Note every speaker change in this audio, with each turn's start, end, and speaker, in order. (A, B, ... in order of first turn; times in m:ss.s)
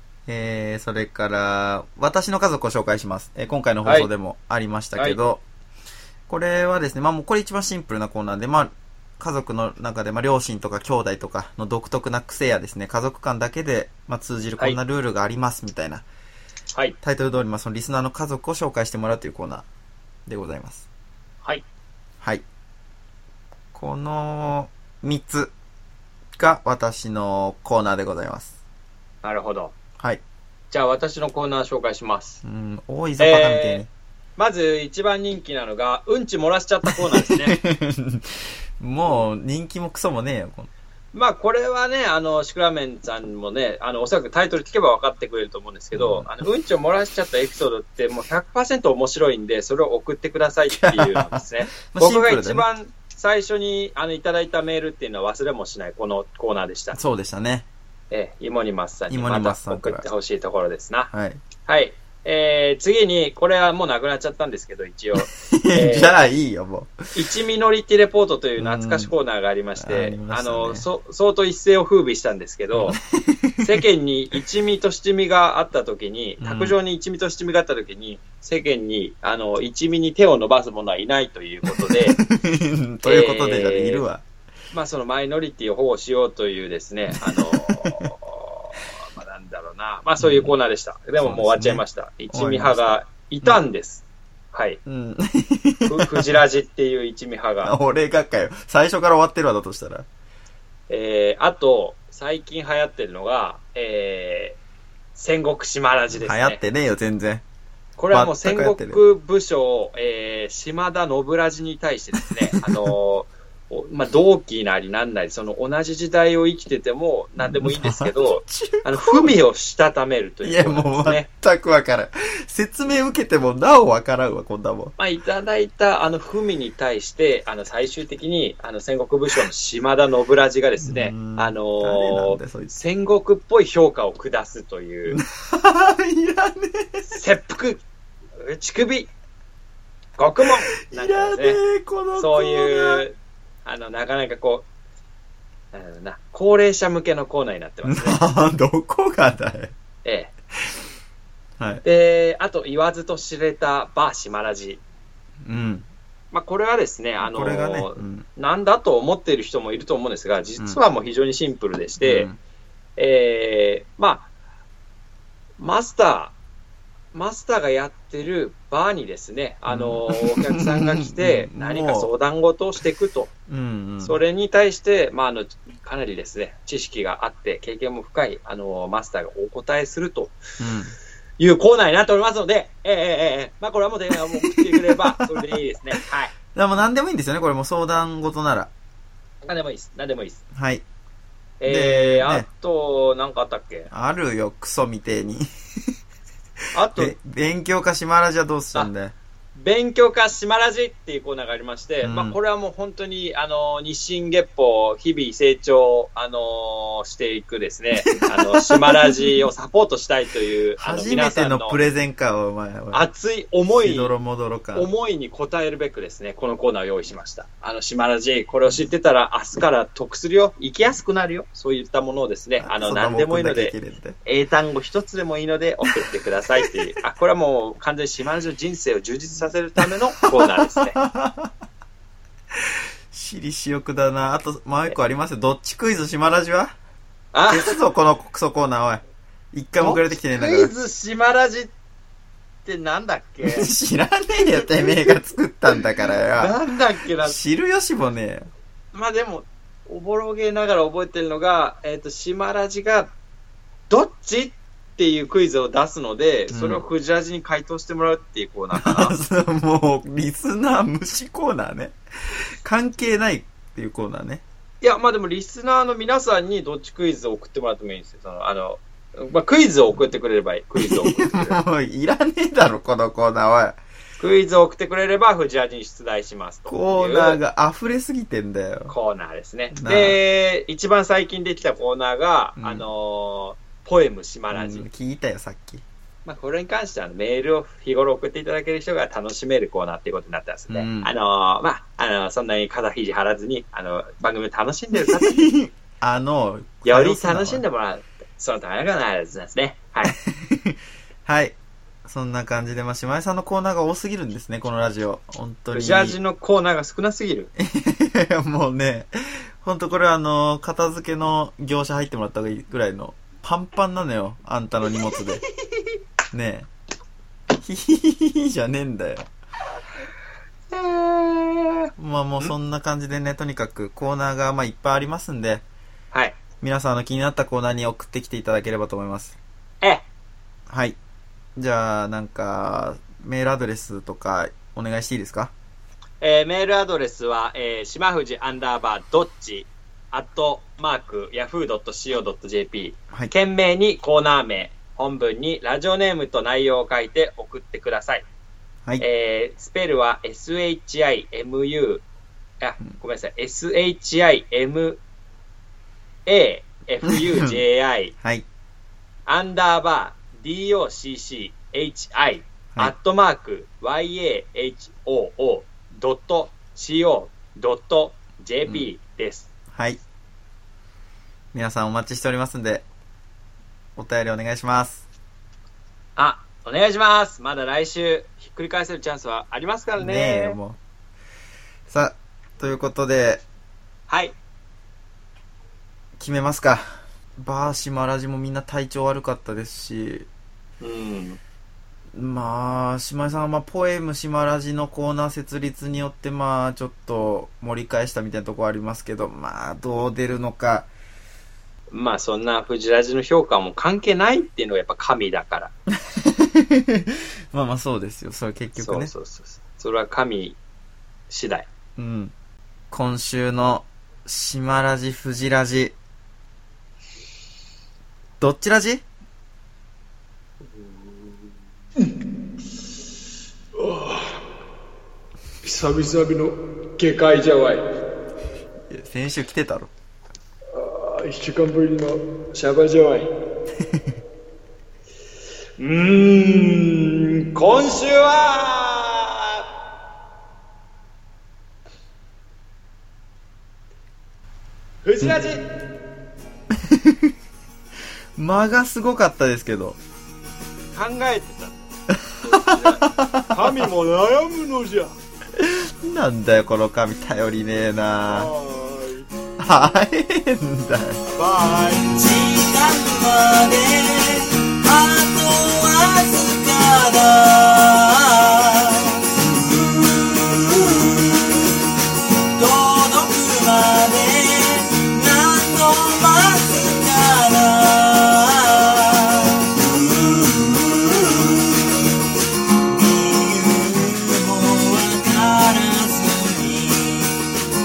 0:00.3-0:05.4 A
0:03.8-0:04.1 B
0:06.3-0:16.0 A
0:17.0-0:19.6 A
0:20.2-0:20.9 A
0:23.7-0:25.5 A
0:26.4-0:28.5 A
0:29.2-0:29.7 B
0:30.7-0:32.4 B
0:32.4-0:33.9 A
0:33.2-0:33.8 B
0:34.4-0:37.5 B
0:36.9-0:40.7 A
0:41.1-0:57.0 B
0:45.9-0:46.3 A
0:50.7-0:52.6 A
0:56.9-0:57.7 A
0:58.1-1:01.1 B
0:59.1-1:00.1 A
1:01.1-1:01.4 A
1:01.6-1:06.1 B
1:05.3-1:07.0 A
1:07.1-1:13.0 B
1:08.6-1:09.1 A
1:09.8-1:10.8 A
1:12.8-1:13.8 A
1:13.6-1:22.2 B
1:16.4-1:16.8 A
1:21.8-1:24.2 A
1:23.0-1:24.0 B
1:24.7-1:34.8 B
1:27.1-1:28.1 A
1:30.2-1:30.5 A
1:31.2-1:33.6 A
1:34.8-1:36.4 A
1:35.8-1:37.7 B
1:37.6-1:40.1 A
1:40.9-1:44.6 B
1:45.1-1:46.6 B
1:46.2-1:47.4 A
1:48.0-2:01.3 B
1:48.1-1:49.0 A
1:52.5-1:52.9 A
1:57.4-1:59.4 A
2:00.4-2:04.9 A
2:05.0-2:15.2 B
2:10.8-2:12.7 A
2:15.1-2:17.2 A
2:17.1-2:17.8 B
2:18.4-2:19.1 B
2:20.2-2:21.6 B
2:20.4-2:23.0 A
2:22.2-2:24.6 B
2:25.7-2:28.2 B
2:27.8-2:29.7 A
2:30.0-2:30.3 B
2:31.6-2:31.8 A
2:31.8-2:34.8 B
2:35.4-2:35.9 A
2:36.3-2:42.3 B
2:37.2-2:38.2 A
2:42.0-2:42.4 A
2:43.0-2:44.3 B
2:45.6-2:46.3 B
2:47.1-2:53.3 B
2:49.7-2:52.1 A
2:53.5-2:54.2 A
2:54.0-3:00.3 B
3:00.6-3:00.9 A
3:01.4-3:06.3 B
3:04.4-3:05.6 A
3:06.5-3:08.7 A
3:09.4-3:10.4 B
3:10.5-3:10.8 A
3:11.6-3:13.9 B
3:11.6-3:12.4 A
3:13.9-3:15.5 A
3:16.7-3:17.1 B
3:16.9-3:19.1 A
3:19.5-3:31.8 B
3:22.0-3:22.4 A
3:28.0-3:29.4 A
3:30.8-3:33.1 A
3:32.9-3:34.1 B
3:33.7-3:34.9 A
3:34.7-3:51.0 B
3:42.6-3:44.2 A
3:50.4-3:51.5 A
3:52.6-3:56.7 A
3:57.3-3:57.7 B
3:57.5-4:00.7 A
3:59.8-4:01.7 B
4:02.6-4:03.7 B
4:03.5-4:06.6 A
4:04.6-4:05.1 B
4:06.4-4:07.4 B
4:07.2-4:08.5 A
4:08.9-4:13.1 B
4:13.9-4:19.1 B
4:16.5-4:16.8 A
4:18.8-4:22.0 A
4:22.6-4:24.4 A
4:24.8-4:31.6 B
4:30.8-4:33.8 A
4:34.2-4:37.4 B
4:36.7-4:38.9 A
4:38.9-4:44.8 B
4:39.7-4:40.2 A
4:42.6-4:42.8 A
4:44.5-4:45.8 A
4:46.2-4:55.4 B
4:50.7-4:51.1 A
4:55.1-4:57.6 A
4:56.8-5:00.2 B
5:00.0-5:06.2 A
5:05.7-5:07.5 B
5:07.6-5:15.4 A
5:16.3-5:16.7 A
5:17.6-5:19.3 A
5:20.7-5:22.5 B
5:22.0-5:25.6 A
5:26.1-5:26.4 B
5:26.6-5:29.4 A
5:30.7-5:31.0 A
5:31.6-5:35.5 A
5:36.2-5:48.2 B
5:49.0-5:52.0 B
5:52.6-5:55.0 B
5:56.2-5:58.1 B
5:57.0-5:57.6 A
5:58.2-5:58.4 A
5:59.2-6:09.5 B
6:09.7-6:10.0 A
6:11.5-6:12.8 A
6:14.0-6:15.0 A
6:16.2-6:20.6 B
6:20.0-6:20.8 A
6:21.9-6:23.4 A
6:24.1-6:24.4 B
6:26.2-6:30.3 A
6:30.8-6:31.4 B
6:32.1-6:40.9 A
6:41.9-6:45.7 B
6:46.0-6:49.1 A
6:48.8-6:50.6 B
6:51.3-6:51.7 B
6:52.0-6:52.3 A
6:52.9-6:55.9 A
6:58.4-6:59.0 A
7:00.6-7:01.5 B
7:03.8-7:04.4 B
7:05.6-7:07.8 B
7:08.9-7:09.9 A
7:10.7-7:13.3 B
7:13.8-7:14.1 A
7:15.8-7:19.6 B
7:25.0-7:25.6 B
7:26.7-7:27.3 A
7:28.4-7:30.0 A
7:30.9-7:31.9 B
7:32.1-7:33.9 A
7:32.4-7:35.1 B
7:35.5-7:38.5 A
7:38.2-7:39.3 B
7:39.6-7:41.2 A
7:41.3-7:42.2 B
7:42.1-7:51.8 C
7:52.6-8:02.0 C
8:02.8-8:07.5 C